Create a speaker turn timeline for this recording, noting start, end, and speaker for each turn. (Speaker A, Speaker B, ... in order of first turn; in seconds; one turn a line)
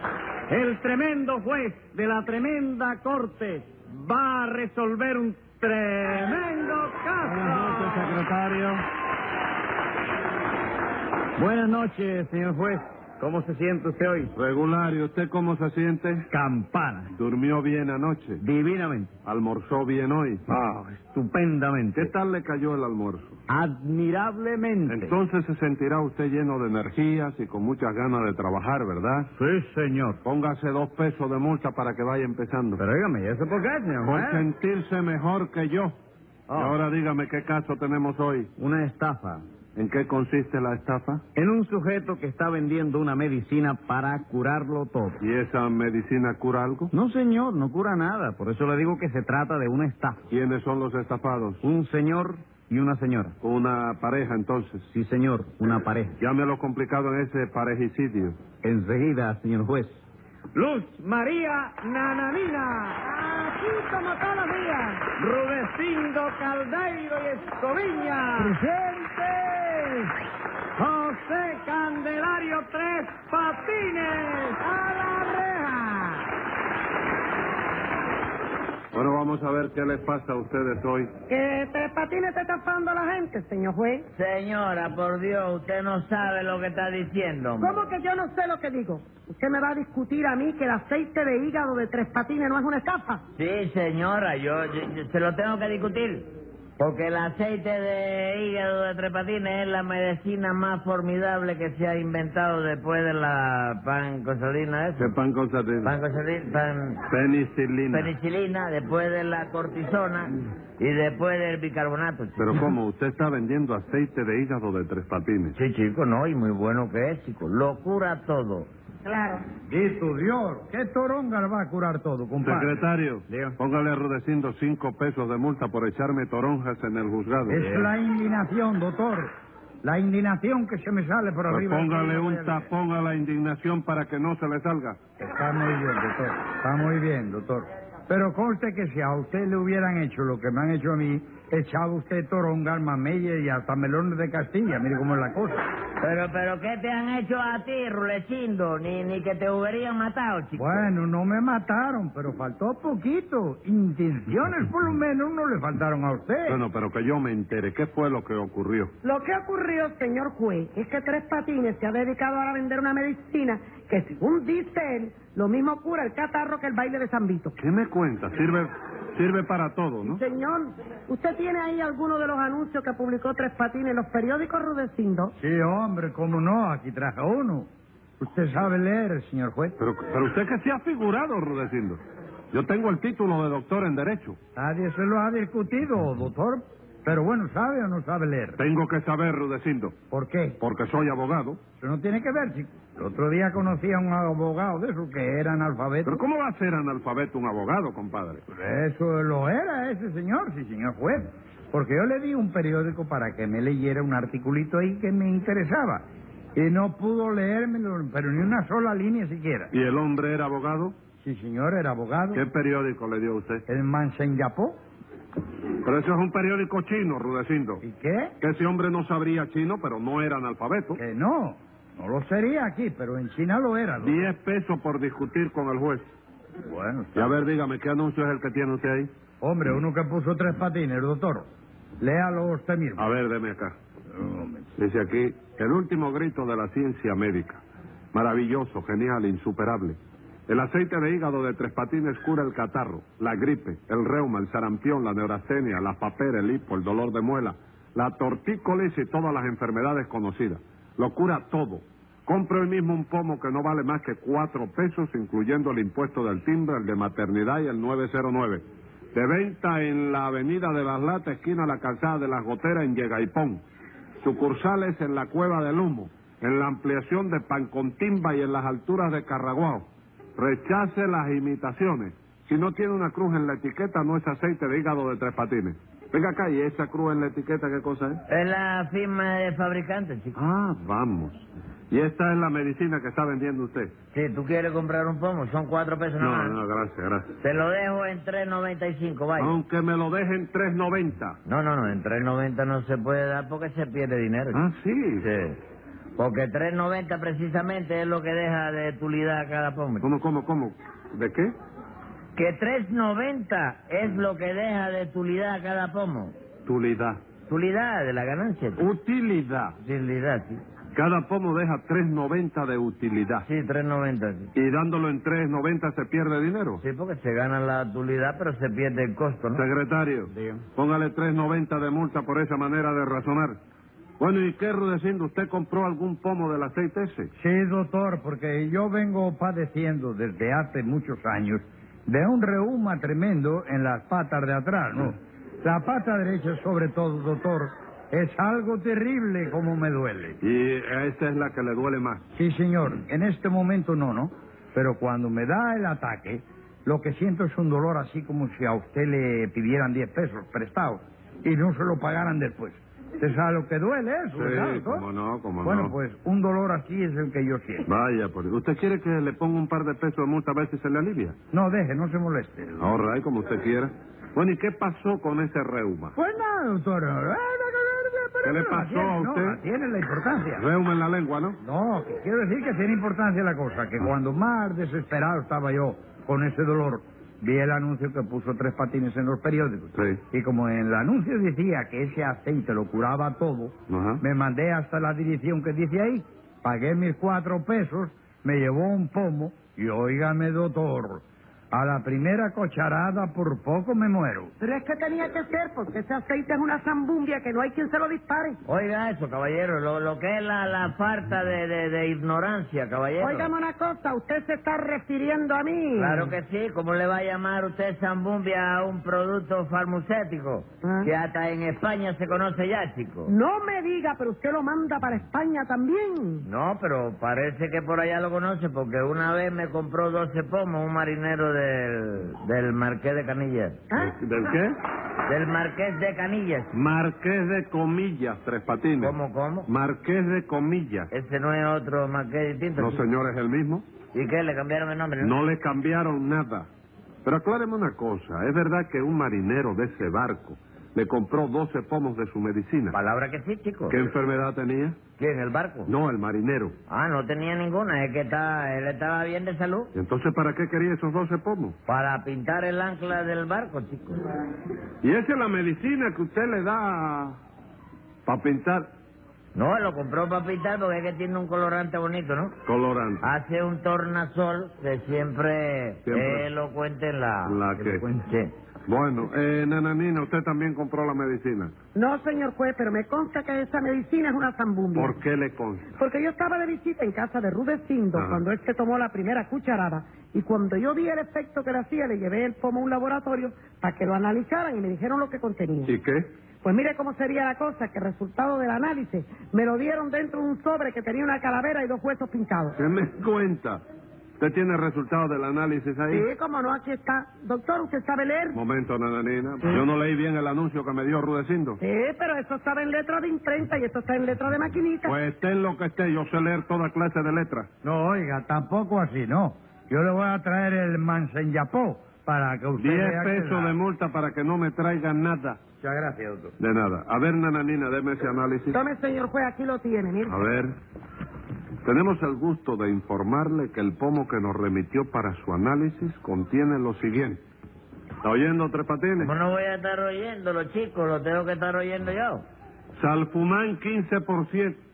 Speaker A: 0.5-8.2
Speaker B: 7.2-8.8
Speaker A: 11.4-14.3
Speaker B: 14.3-16.3
Speaker A: 16.3-17.1
Speaker B: 17.1-18.4
Speaker A: 18.4-19.1
Speaker B: 19.2-20.4
Speaker A: 20.5-22.1
Speaker B: 22.0-23.4
Speaker A: 23.5-25.2
Speaker B: 24.9-29.3
Speaker A: 29.4-30.2
Speaker B: 30.2-32.8
Speaker A: 32.8-34.5
Speaker B: 34.0-36.0
Speaker A: 36.5-36.8
Speaker B: 36.5-38.5
Speaker A: 38.6-39.4
Speaker B: 39.8-41.2
Speaker A: 41.4-45.2
Speaker B: 45.2-46.9
Speaker A: 46.9-50.2
Speaker B: 50.3-51.6
Speaker A: 51.6-53.4
Speaker B: 53.4-54.9
Speaker A: 54.9-56.2
Speaker B: 56.2-58.4
Speaker A: 58.6-60.0
Speaker A: 60.5-63.0
Speaker C: 63.0-65.1
Speaker A: 65.1-68.6
Speaker D: 68.4-69.5
Speaker A: 70.8-76.2
Speaker C: 74.7-75.6
Speaker B: 78.9-81.1
Speaker C: 81.3-84.0
Speaker E: 84.1-87.8
Speaker C: 87.6-93.2
Speaker E: 93.3-105.1
Speaker B: 105.0-105.9
Speaker E: 105.8-107.0
Speaker B: 107.1-108.1
Speaker E: 107.9-112.5
Speaker B: 112.4-115.6
Speaker E: 115.5-118.7
Speaker D: 119.7-122.8
Speaker B: 122.4-127.6
Speaker A: 123.3-123.6
Speaker D: 127.5-129.3
Speaker A: 127.6-127.9
Speaker D: 129.8-132.7
Speaker B: 131.5-135.0
Speaker D: 135.2-145.6
Speaker E: 146.0-150.9
Speaker D: 150.6-156.6
Speaker B: 156.5-158.9
Speaker C: 159.0-167.5
Speaker B: 167.6-170.2
Speaker C: 170.0-175.3
Speaker D: 175.4-177.7
Speaker D: 178.2-179.8
Speaker B: 179.8-182.0
Speaker B: 182.5-184.4
Speaker D: 184.6-188.6
Speaker B: 188.6-189.9
Speaker D: 190.1-190.6
Speaker B: 190.6-191.6
Speaker D: 191.8-196.2
Speaker B: 196.1-198.4
Speaker D: 198.5-206.0
Speaker D: 206.6-209.7
Speaker B: 209.7-211.0
Speaker D: 211.2-212.4
Speaker B: 212.3-213.6
Speaker D: 213.7-214.8
Speaker B: 215.8-217.8
Speaker D: 217.8-218.3
Speaker B: 218.4-221.0
Speaker D: 221.0-224.3
Speaker B: 224.0-226.1
Speaker D: 226.7-227.4
Speaker B: 227.2-229.1
Speaker D: 229.4-231.5
Speaker D: 232.0-233.1
Speaker B: 233.0-233.8
Speaker D: 234.1-234.7
Speaker B: 234.8-237.6
Speaker B: 238.1-240.0
Speaker B: 240.5-263.6
Speaker B: 264.2-278.2
Speaker E: 278.3-280.4
Speaker B: 280.4-283.9
Speaker E: 284.1-286.6
Speaker B: 286.2-287.3
Speaker E: 287.4-289.6
Speaker B: 289.4-291.4
Speaker E: 291.5-294.6
Speaker B: 294.5-295.3
Speaker E: 295.2-295.6
Speaker E: 296.2-300.1
Speaker B: 300.0-301.5
Speaker E: 302.4-306.4
Speaker B: 306.7-307.2
Speaker E: 307.5-308.8
Speaker B: 308.8-309.8
Speaker E: 309.8-310.6
Speaker B: 310.9-313.5
Speaker E: 313.4-314.5
Speaker B: 314.6-316.8
Speaker E: 316.8-319.6
Speaker B: 319.6-323.6
Speaker A: 320.3-320.6
Speaker B: 324.2-327.3
Speaker D: 327.4-340.4
Speaker B: 340.4-342.2
Speaker D: 342.4-355.1
Speaker B: 354.4-355.9
Speaker D: 355.6-357.9
Speaker B: 357.9-361.4
Speaker D: 361.5-362.9
Speaker B: 362.8-366.1
Speaker D: 366.2-370.6
Speaker B: 368.4-369.6
Speaker B: 370.6-371.6
Speaker D: 371.6-394.5
Speaker B: 379.9-380.2
Speaker B: 383.9-384.2
Speaker C: 394.6-398.6
Speaker E: 398.7-403.5
Speaker C: 403.2-406.3
Speaker E: 406.0-413.3
Speaker C: 410.8-411.1
Speaker C: 413.3-416.5
Speaker E: 416.4-423.8
Speaker B: 424.0-424.7
Speaker E: 425.3-426.7
Speaker B: 426.7-429.1
Speaker E: 429.0-429.7
Speaker B: 429.7-431.1
Speaker E: 431.1-433.0
Speaker B: 432.8-433.9
Speaker E: 434.1-435.4
Speaker B: 435.2-436.7
Speaker B: 437.2-443.0
Speaker E: 442.9-444.0
Speaker B: 443.9-445.0
Speaker E: 445.2-445.9
Speaker B: 445.9-446.8
Speaker E: 446.9-449.9
Speaker B: 449.9-451.8
Speaker E: 451.9-454.2
Speaker B: 455.0-457.4
Speaker B: 458.3-458.9
Speaker E: 459.6-462.5
Speaker B: 462.7-463.2
Speaker E: 463.2-467.6
Speaker B: 466.1-466.5
Speaker B: 467.5-468.1
Speaker A: 467.8-468.3
Speaker E: 468.2-468.5
Speaker B: 468.9-471.7
Speaker C: 472.0-475.1
Speaker B: 474.9-475.9
Speaker C: 476.0-485.9
Speaker B: 478.1-478.4
Speaker B: 485.9-486.3
Speaker C: 486.6-492.8
Speaker B: 492.8-493.8
Speaker B: 494.4-496.3
Speaker C: 496.1-498.6
Speaker B: 498.6-501.8
Speaker C: 501.8-505.2
Speaker B: 505.1-507.7
Speaker D: 507.8-513.8
Speaker B: 512.8-515.6
Speaker D: 515.8-516.5
Speaker B: 516.6-518.8
Speaker C: 518.7-520.4
Speaker B: 520.2-520.8
Speaker B: 521.9-527.4
Speaker B: 528.2-529.3
Speaker E: 529.2-532.5
Speaker B: 533.0-534.8